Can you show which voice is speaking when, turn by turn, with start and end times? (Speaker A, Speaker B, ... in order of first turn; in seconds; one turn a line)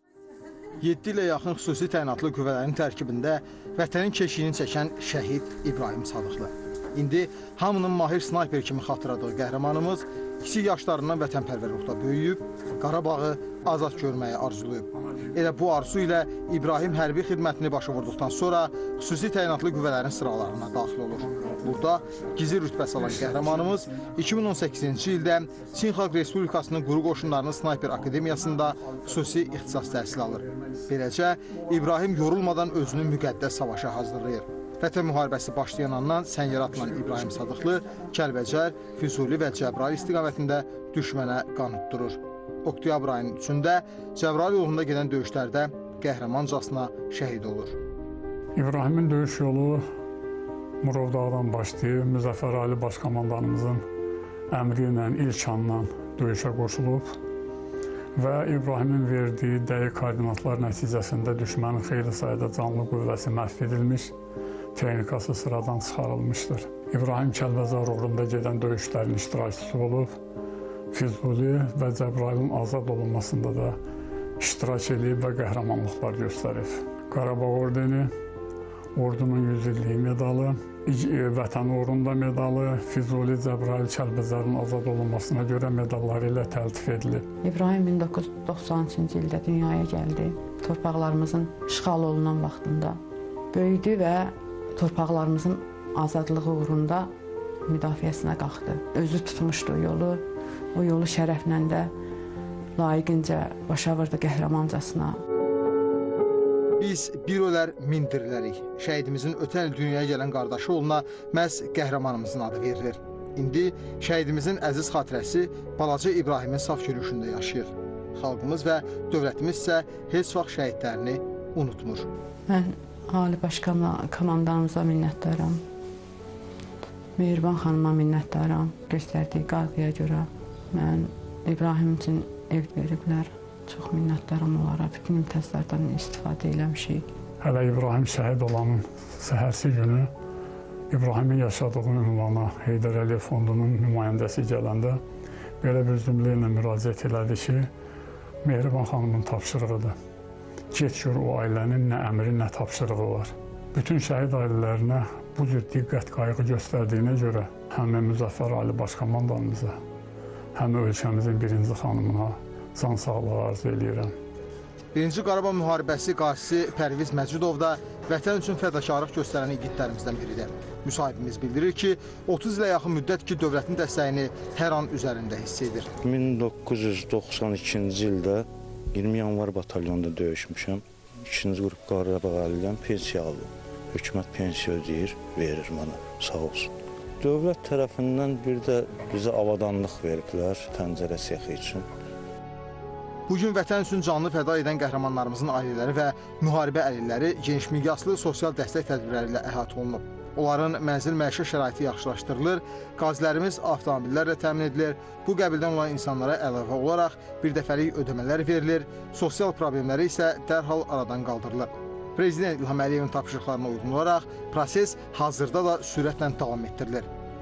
Speaker A: 0.8-47.8
Speaker B: 48.5-49.8
Speaker B: 50.8-53.8
Speaker B: 54.5-57.2
Speaker B: 58.1-64.1
Speaker B: 64.7-70.2
Speaker B: 70.9-73.8
Speaker B: 74.4-78.1
Speaker B: 78.9-87.2
Speaker C: 87.4-93.0
Speaker C: 93.5-97.1
Speaker C: 97.7-100.2
Speaker C: 100.7-101.9
Speaker C: 102.8-105.2
Speaker A: 106.8-122.1
Speaker C: 122.5-125.6
Speaker C: 127.2-137.0
Speaker B: 137.4-140.1
Speaker B: 140.9-145.0
Speaker B: 145.6-147.7
Speaker B: 148.4-149.9
Speaker B: 150.7-159.8
Speaker B: 160.5-164.1
Speaker A: 164.9-175.9
Speaker D: 176.0-191.8
Speaker A: 193.3-217.1